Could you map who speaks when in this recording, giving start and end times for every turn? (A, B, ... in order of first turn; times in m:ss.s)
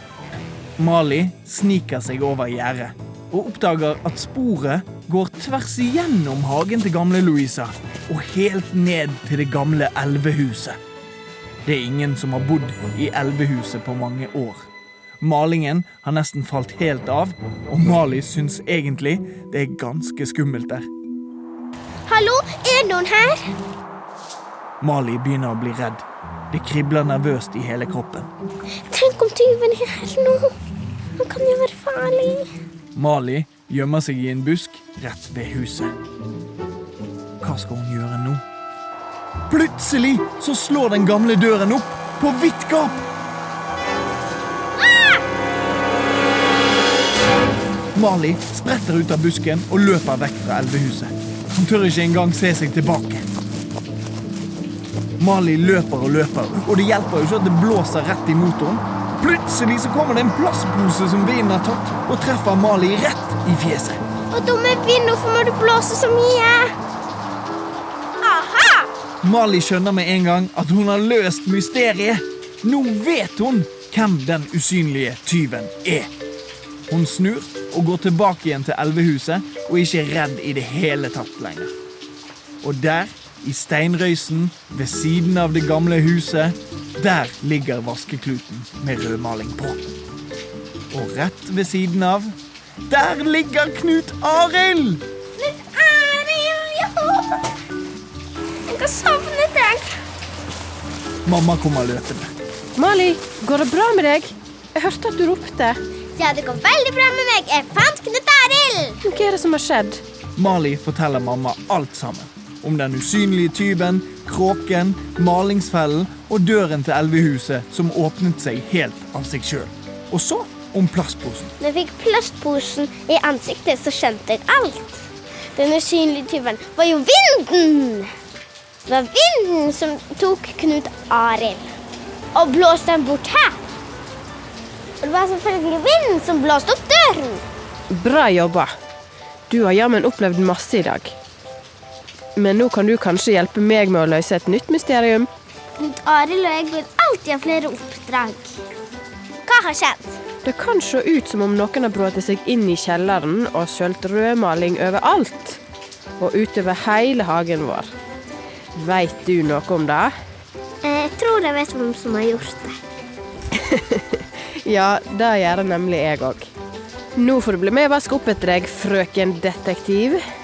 0:00.8-0:10.8 A
0:11.6-0:14.7 A
0:15.2-0:20.9 A
0:22.0-0:23.5 B
0:24.8-0:28.3 A
0:28.9-0:30.5 B
0:31.2-0:32.4 B
0:32.9-0:35.9 A
0:37.4-0:38.4 A
0:39.5-0:43.0 A
0:47.9-0:53.2 A
0:55.2-1:04.0 A
1:04.3-1:06.7 B
1:08.2-1:08.9 B
1:09.2-1:16.1 A
1:16.9-1:21.7 A
1:22.6-1:29.9 A
1:30.9-1:32.3 A
1:32.9-1:35.0 A
1:35.4-1:37.5 B
1:38.7-1:39.9 B
1:41.2-1:42.3 A
1:42.8-1:45.8 C
1:46.2-1:49.0 B
1:49.0-1:50.0 C
1:50.4-2:01.5 A
2:01.6-2:05.0 B
2:05.5-2:08.1 B
2:08.9-2:11.6 B
2:12.3-2:13.6 B
2:15.0-2:17.4 B
2:17.9-2:18.7 C
2:19.5-2:21.2 C
2:22.4-2:25.3 C
2:25.8-2:28.6 B
2:29.4-2:30.2 B
2:30.4-2:35.6 C
2:36.2-2:37.9 C
2:38.7-2:40.1 C
2:40.8-2:42.8 B
2:43.5-2:46.5 C
2:47.2-2:50.2 C